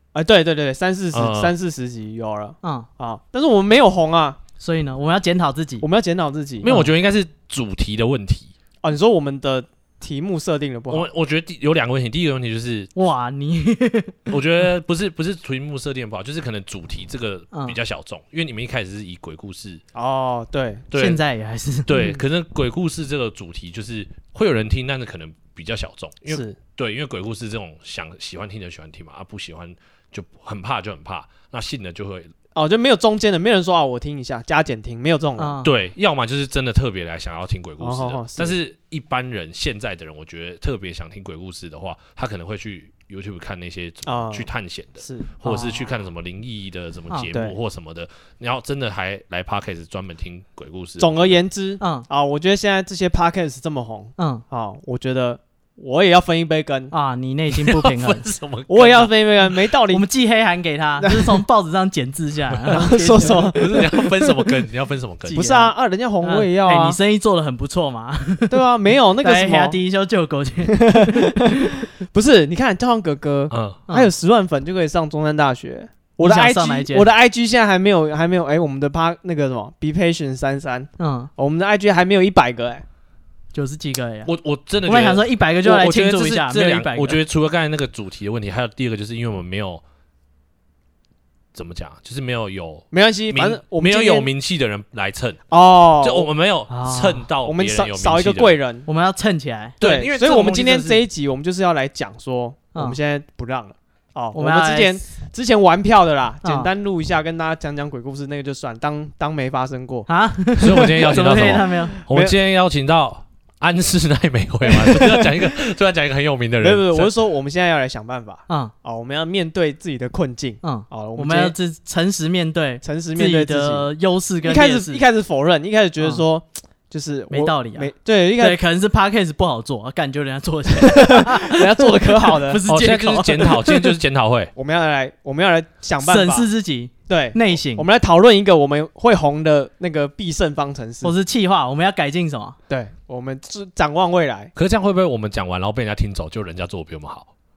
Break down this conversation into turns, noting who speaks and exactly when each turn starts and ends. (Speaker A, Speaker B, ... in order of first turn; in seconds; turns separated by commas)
Speaker A: 0.1-4.4, Speaker B: 1.1-1.5, Speaker C: 4.6-5.8, Speaker A: 5.8-6.7, Speaker B: 6.6-8.5, Speaker C: 6.7-6.9, Speaker A: 8.8-11.1, Speaker B: 10.9-12.9, Speaker C: 12.9-14.3, Speaker B: 14.3-19.8, Speaker C: 17.5-17.8, Speaker A: 19.9-20.9, Speaker B: 20.9-21.2, Speaker C: 20.9-22.0, Speaker B: 21.9-32.3, Speaker A: 21.9-22.2, Speaker A: 26.3-26.6, Speaker A: 32.5-35.6, Speaker C: 35.4-35.7, Speaker B: 35.6-51.4, Speaker A: 37.8-38.5, Speaker A: 44.0-45.9, Speaker A: 47.3-47.6, Speaker A: 51.0-56.9, Speaker C: 51.8-52.0, Speaker C: 54.2-54.4, Speaker C: 56.9-58.3, Speaker B: 57.5-59.6, Speaker A: 58.7-60.1, Speaker C: 59.9-63.6, Speaker A: 61.0-61.4, Speaker B: 62.5-65.5, Speaker A: 62.7-64.3, Speaker A: 65.3-67.0, Speaker C: 65.3-68.6, Speaker A: 68.5-69.8, Speaker C: 69.2-71.6, Speaker A: 70.7-82.8, Speaker B: 73.5-73.8, Speaker C: 76.2-77.0, Speaker C: 81.0-81.3, Speaker C: 83.5-84.3, Speaker B: 84.2-89.8, Speaker C: 84.8-87.2, Speaker B: 91.5-95.4, Speaker A: 92.9-94.3, Speaker A: 95.5-96.3, Speaker B: 96.0-98.5, Speaker C: 96.7-97.2, Speaker A: 97.5-98.9, Speaker C: 98.9-99.8, Speaker B: 99.8-101.0, Speaker A: 99.8-110.1, Speaker C: 104.3-105.0, Speaker C: 106.4-106.7, Speaker C: 110.1-112.0, Speaker B: 110.6-117.1, Speaker A: 111.1-112.3, Speaker A: 116.6-121.5, Speaker C: 120.6-125.0, Speaker A: 122.8-123.9, Speaker A: 124.4-128.6, Speaker C: 127.3-133.9, Speaker A: 130.8-132.6, Speaker B: 132.7-134.5, Speaker A: 134.6-136.5, Speaker C: 136.0-137.8, Speaker A: 137.1-141.1, Speaker C: 141.0-142.6, Speaker A: 142.7-144.5, Speaker B: 144.6-147.3